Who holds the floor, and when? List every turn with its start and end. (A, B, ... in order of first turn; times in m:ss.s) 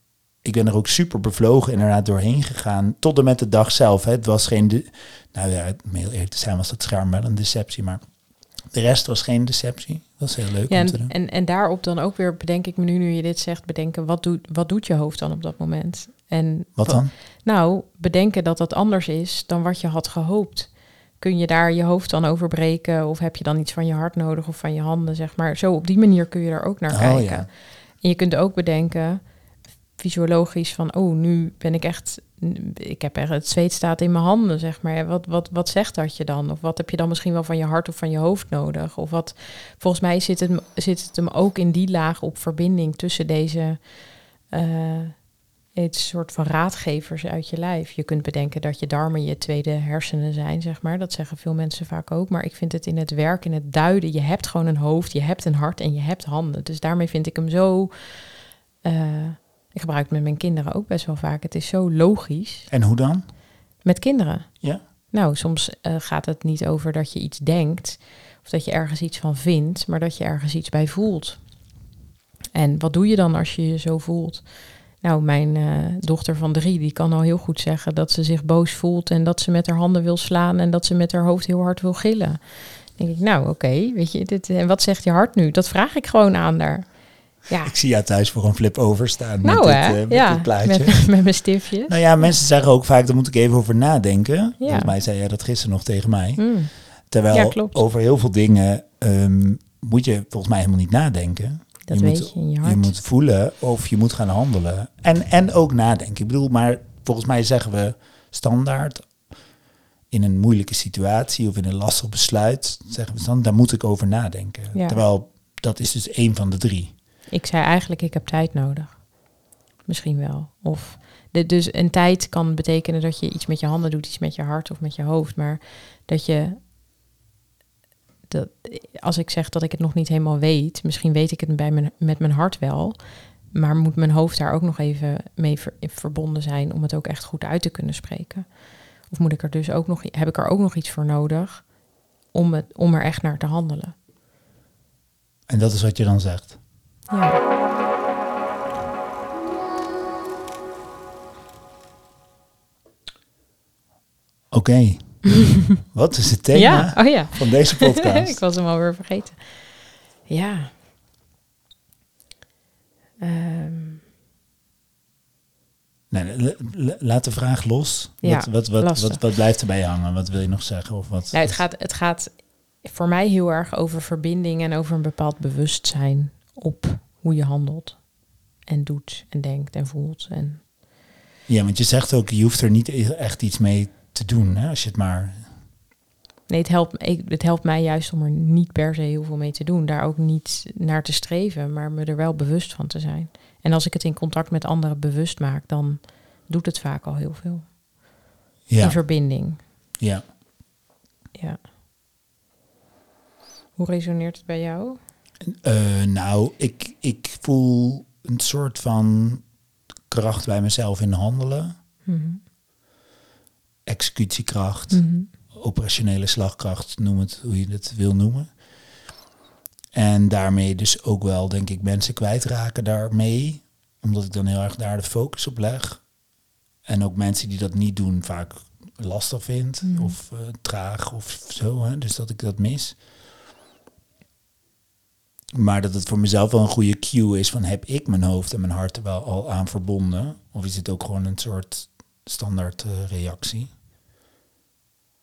0:00.4-0:11.1 A
0:10.7-0:29.3 B
0:16.8-0:17.1 A
0:26.9-0:27.5 A
0:30.0-1:02.7 B
1:02.7-1:03.3 A
1:03.8-1:11.5 B
1:12.5-1:27.7 B
1:27.6-1:49.5 A
1:29.4-1:32.4 B
1:34.6-1:35.0 B
1:36.4-1:37.8 B
1:41.9-1:42.9 B
1:50.1-1:57.0 A
1:54.7-1:55.0 B
1:57.3-1:59.2 B
1:59.8-2:06.6 B
2:08.3-2:21.8 B
2:22.3-2:24.0 B
2:25.5-2:26.6 A
2:27.1-2:27.4 B
2:34.5-2:38.4 A
2:36.5-2:40.7 B
2:43.2-2:44.0 B
2:46.1-2:51.6 A
2:48.2-2:49.2 B
2:51.3-3:00.6 B
3:01.5-3:05.5 A
3:06.5-3:17.8 B
3:18.7-3:19.4 A
3:18.8-3:19.6 B
3:20.0-3:20.3 A
3:21.4-3:21.6 B
3:23.8-3:25.0 B
3:25.5-3:29.5 A
3:30.1-3:31.8 A
3:32.1-3:32.4 B
3:33.9-3:39.0 A
3:34.9-3:35.3 B
3:39.9-3:46.3 A
3:46.8-3:53.0 A
3:49.8-3:50.2 B
3:55.5-4:03.7 A